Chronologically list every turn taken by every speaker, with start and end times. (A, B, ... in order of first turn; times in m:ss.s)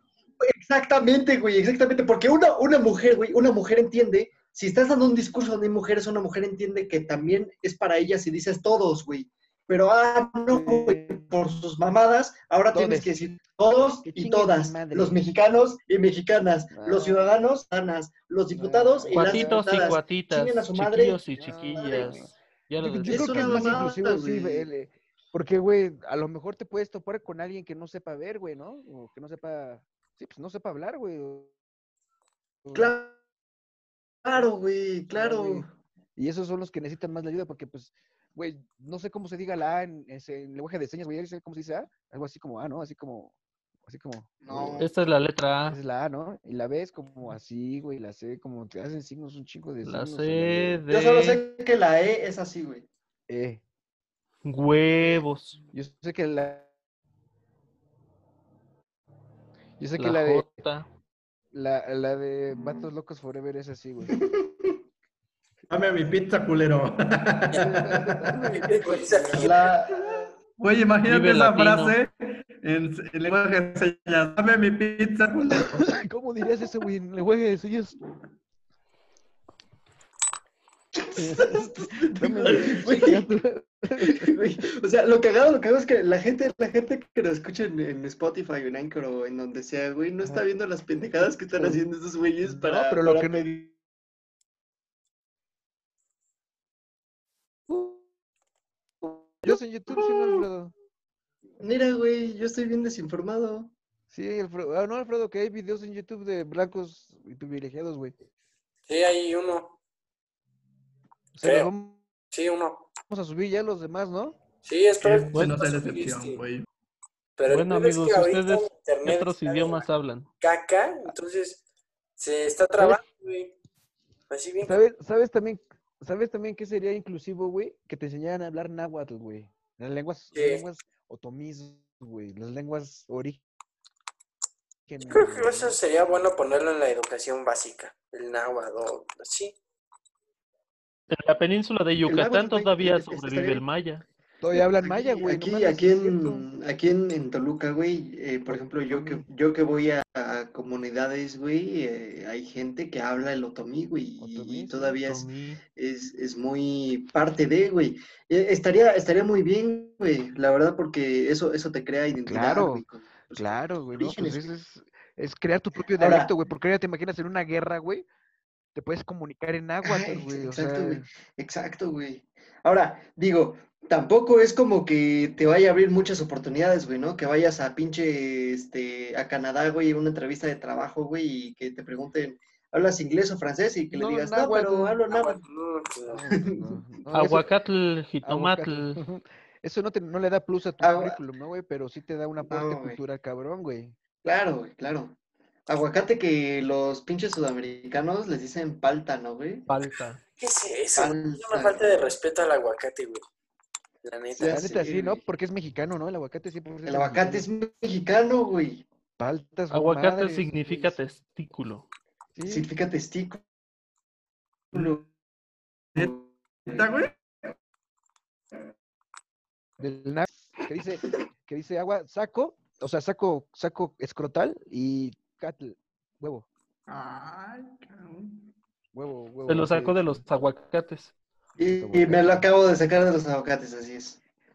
0:00.4-0:21.2 A
0:10.5-0:11.2 B
0:12.7-0:13.2 B
0:14.0-0:15.2 B
0:16.7-0:17.4 B
0:18.5-0:19.8 B
0:19.1-0:23.8 C
0:21.4-0:31.5 B
0:21.7-0:22.2 A
0:23.0-0:24.7 A
0:32.6-0:32.9 B
0:32.7-0:33.2 A
0:34.2-0:35.7 A
0:35.1-0:43.3 B
0:43.8-0:44.9 B
0:44.4-0:44.9 A
0:44.8-0:45.8 C
0:45.7-0:50.8 B
0:49.8-0:51.4 C
0:50.9-0:52.8 A
0:53.3-0:53.6 B
0:54.4-0:55.6 C
0:55.7-0:56.7 B
0:59.8-1:00.5 B
1:00.0-1:00.9 C
1:01.5-1:04.2 B
1:04.1-1:04.7 A
1:05.7-1:08.6 D
1:07.5-1:09.7 B
1:08.6-1:09.6 E
1:08.8-1:10.3 A
1:10.6-1:16.0 D
1:11.0-1:12.0 C
1:15.5-1:18.0 B
1:21.0-1:23.3 A
1:21.1-1:24.4 B
1:24.0-1:33.7 A
1:31.2-1:31.8 B
1:32.4-1:33.5 B
1:37.7-1:38.0 B
1:39.0-1:40.7 B
1:39.5-1:40.4 A
1:41.6-1:43.7 A
1:44.1-1:48.1 B
1:48.9-1:49.8 E
1:51.3-1:52.0 B
1:51.4-1:51.7 E
1:52.3-1:52.9 E
1:53.1-1:54.4 B
1:54.6-1:56.4 E
1:55.0-1:56.6 D
1:57.4-1:59.8 E
1:57.5-2:00.3 C
2:00.4-2:01.6 E
2:02.2-2:03.5 E
2:04.3-2:04.8 E
2:04.6-2:13.4 B
2:10.3-2:10.6 E
2:14.9-2:15.8 B
2:15.1-2:19.6 E
2:21.1-2:24.0 C
2:22.0-2:23.6 A
2:24.4-2:26.4 B
2:24.5-2:44.5 A
2:28.5-2:29.2 B
2:34.2-2:35.0 B
2:35.0-2:35.6 C
2:42.2-2:48.0 B
2:46.0-2:46.3 A
2:48.7-2:51.1 B
2:49.8-3:05.4 A
3:03.9-3:05.0 B
3:05.1-3:06.2 E
3:06.1-3:07.5 B
3:06.3-3:06.8 A
3:07.1-3:09.0 C
3:08.2-3:13.9 B
3:10.8-3:11.2 A
3:12.5-3:13.0 A
3:14.2-3:15.2 A
3:15.7-3:19.7 A
3:19.7-3:20.2 C
3:20.4-3:23.2 E
3:21.0-3:22.1 A
3:24.0-3:24.8 E
3:24.4-3:25.2 A
3:24.5-3:27.5 B
3:26.8-3:28.8 A
3:29.2-3:31.0 B
3:29.7-3:31.8 C
3:32.3-3:32.7 B
3:32.4-3:33.4 A
3:34.7-3:35.1 A
3:36.6-3:37.5 D
3:39.8-3:46.5 B
3:46.9-3:48.5 D
3:48.9-3:50.0 B
3:49.5-3:51.1 C
3:51.6-3:54.2 A
3:51.6-3:52.4 B